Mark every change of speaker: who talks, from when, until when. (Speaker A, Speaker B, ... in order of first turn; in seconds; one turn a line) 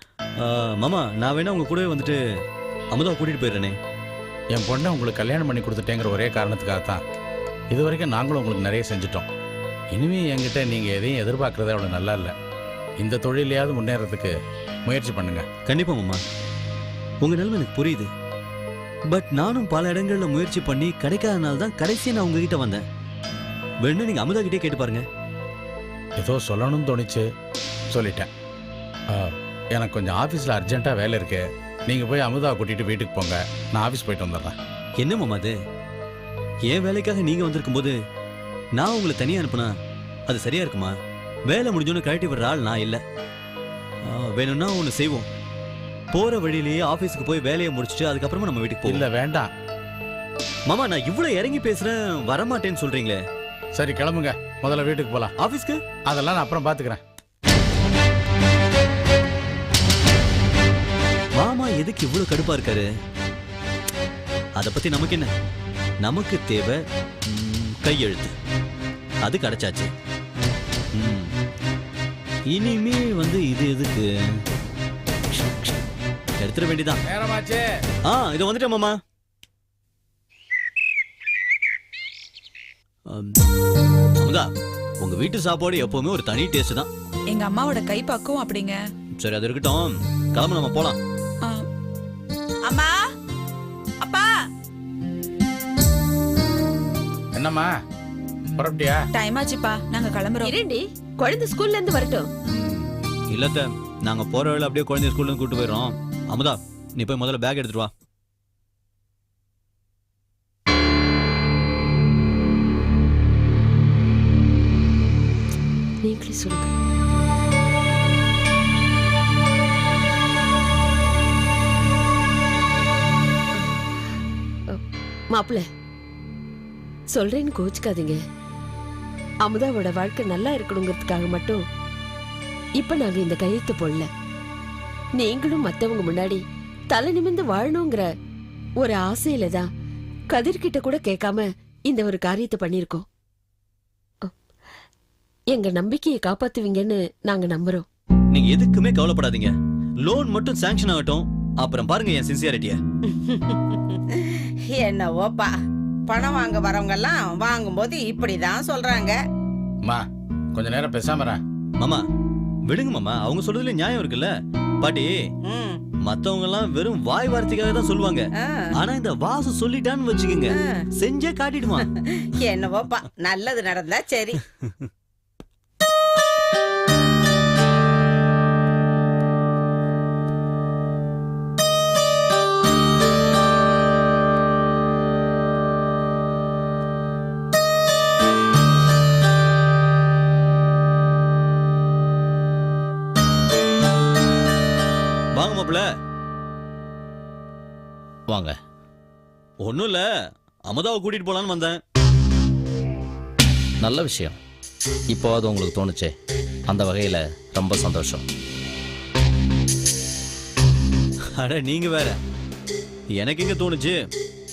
Speaker A: 0.4-2.2
Speaker A: 2.9-3.8
Speaker B: 4.5-7.0
Speaker B: 7.7-9.3
Speaker B: 9.9-12.3
Speaker B: 13.0-14.3
Speaker B: 14.9-15.4
Speaker A: 15.7-16.2
Speaker A: 17.2-18.1
Speaker A: 19.1-22.8
Speaker A: 23.8-25.1
Speaker B: 26.2-27.2
Speaker B: 27.9-28.3
Speaker B: 29.1-34.6
Speaker A: 35.0-35.5
Speaker A: 36.7-37.9
Speaker A: 38.8-39.7
Speaker A: 40.3-40.9
Speaker A: 41.5-43.0
Speaker A: 44.1-45.2
Speaker A: 46.1-49.0
Speaker B: 48.9-49.5
Speaker A: 50.7-53.2
Speaker B: 53.8-55.3
Speaker A: 55.4-55.8
Speaker B: 56.1-57.0
Speaker A: 61.4-62.9
Speaker A: 64.6-65.3
Speaker A: 66.0-68.3
Speaker A: 69.2-69.9
Speaker A: 70.9-71.3
Speaker A: 72.5-74.0
Speaker A: 76.4-77.0
Speaker B: 77.1-77.7
Speaker A: 78.1-79.0
Speaker A: 83.1-83.4
Speaker A: 84.2-84.5
Speaker A: 85.0-86.9
Speaker C: 87.3-88.8
Speaker A: 89.2-91.0
Speaker C: 92.6-93.0
Speaker C: 94.0-94.3
Speaker B: 97.3-97.7
Speaker B: 98.6-99.0
Speaker C: 99.1-100.5
Speaker D: 100.4-102.3
Speaker A: 102.5-107.9
Speaker D: 116.0-116.7
Speaker D: 125.3-125.6
Speaker D: 127.1-128.2
Speaker D: 129.4-131.6
Speaker D: 132.8-134.1
Speaker D: 135.2-136.4
Speaker D: 136.9-138.1
Speaker D: 138.8-139.6
Speaker D: 140.3-143.1
Speaker D: 145.5-147.8
Speaker A: 148.3-152.8
Speaker E: 153.1-154.2
Speaker E: 154.8-155.5
Speaker E: 156.1-159.2
Speaker B: 160.6-161.4
Speaker A: 162.7-165.1
Speaker E: 165.4-165.8
Speaker A: 166.1-171.9
Speaker E: 168.4-168.7
Speaker E: 170.5-170.8
Speaker E: 172.1-174.4
Speaker A: 195.3-195.8
Speaker F: 198.3-198.6
Speaker A: 199.6-200.0
Speaker A: 200.7-201.8
Speaker F: 203.8-204.4
Speaker F: 205.1-206.1
Speaker F: 206.7-208.2
Speaker A: 211.4-212.2
Speaker A: 213.2-213.9